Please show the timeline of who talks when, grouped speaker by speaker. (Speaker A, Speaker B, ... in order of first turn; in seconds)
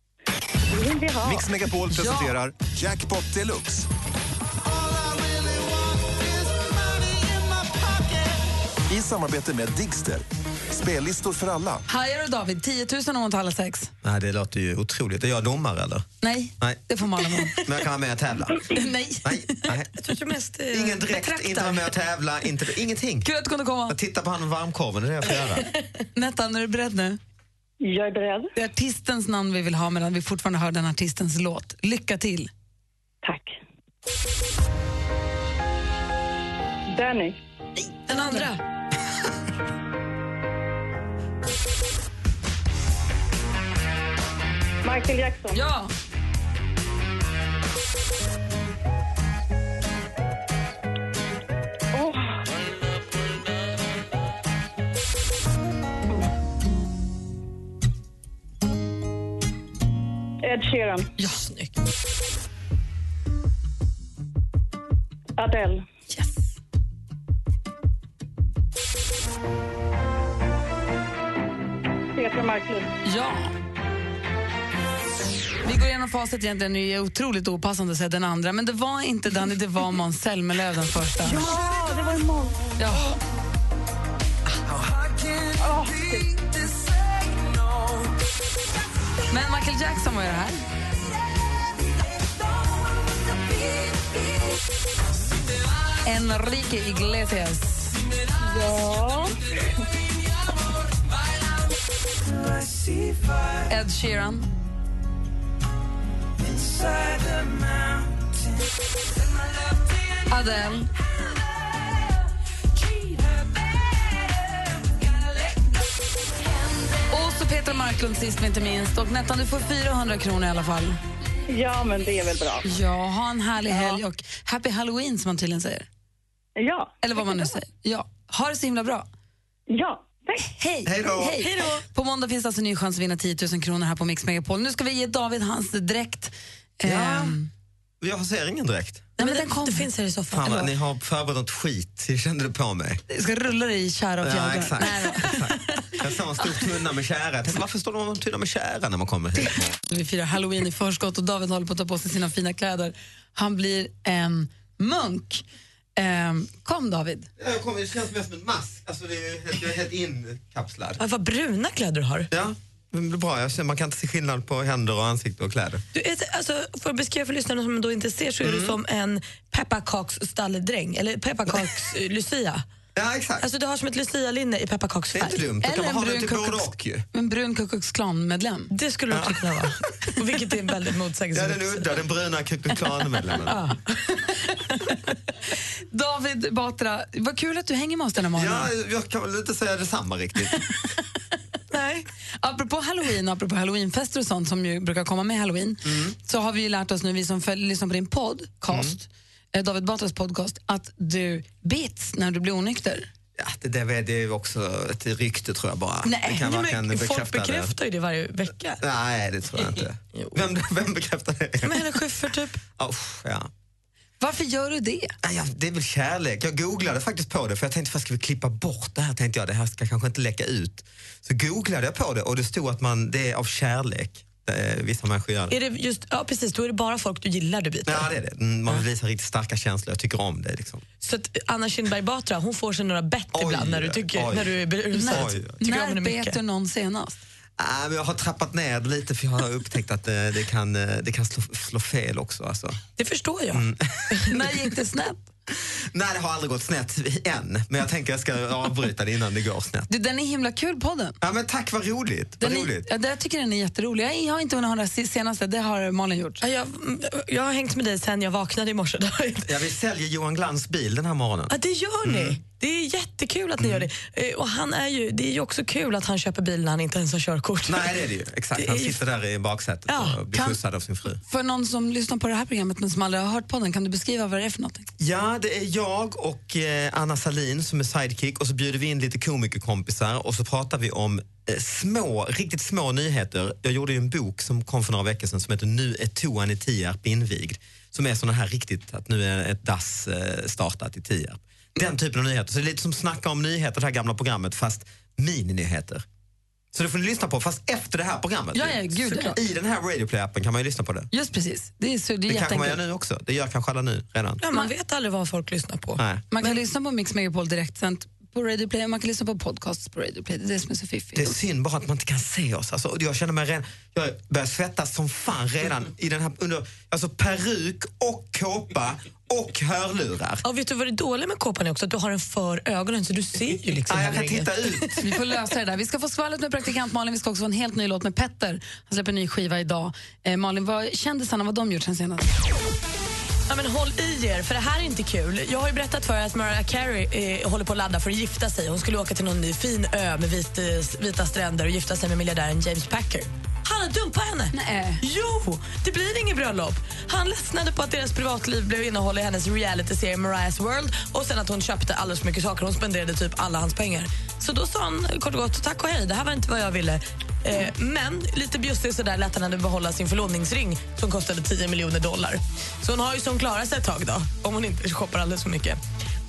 Speaker A: 0.8-1.4, 27.8-28.5, 33.2-33.5, 36.9-37.4, 44.8-45.6, 51.9-52.3, 60.4-61.1, 65.4-65.8, 72.1-72.9, 81.2-82.5, 85.6-86.0, 98.6-99.2, 121.5-122.6, 126.6-127.4, 129.7-130.4
Speaker B: 1.2-3.9, 4.6-8.3, 8.9-11.8
Speaker C: 1.9-2.3, 11.9-13.9, 16.2-17.6, 18.7-19.6, 23.2-23.9, 26.1-27.2, 28.5-32.5, 38.1-38.5, 45.5-45.9, 73.0-73.5, 75.6-81.5, 82.8-83.2, 89.3-90.6, 96.0-97.9, 103.7-104.5, 110.3-110.9, 117.1-121.0, 122.6-125.9, 127.0-129.1, 130.4-137.5, 139.2-139.9, 143.1-145.8, 149.9-155.4, 156.0-157.3, 175.6-178.7, 185.9-188.7, 192.4-203.1, 214.2-215.1, 234.9-237.2, 244.3-245.3, 249.9-251.2, 252.4-256.4, 271.2-274.9, 298.5-299.4, 301.1-302.8, 306.3-311.4, 325.0-332.3, 344.5-345.0
Speaker D: 14.0-16.1, 17.6-18.7, 19.2-19.9, 20.7-23.3, 23.9-25.7, 130.8-131.4, 136.8-137.4, 138.0-139.1, 140.3-143.0, 144.2-149.7, 157.4-161.0, 162.3-165.8, 168.4-168.8, 172.9-173.4, 175.1-177.1, 179.1-179.7, 181.3-183.6, 188.3-190.6, 195.8-196.1, 198.7-198.9, 203.3-207.7, 208.8-211.8, 212.8-213.5, 215.2-225.5, 227.8-230.8, 233.3-234.5, 235.1-235.5, 237.6-242.8, 243.5-244.1, 245.6-249.9, 251.2-252.9, 259.4-262.4, 263.6-263.9, 267.7-271.2, 275.0-296.0, 296.7-301.1, 302.3-304.4, 306.0-306.2, 311.1-320.4, 323.9-324.9
Speaker E: 19.9-21.9, 38.1-38.6, 61.2-61.7, 131.4-131.8, 139.2-140.7, 161.0-162.3, 165.9-172.6, 173.4-175.4, 178.7-182.0, 183.4-184.0, 191.7-192.0, 206.1-208.8, 210.1-210.4, 211.6-212.6, 225.5-228.1, 231.0-236.4, 243.0-244.3, 256.4-259.5, 261.5-269.0, 269.9-270.2, 304.4-306.5, 320.4-325.0, 333.5-365.8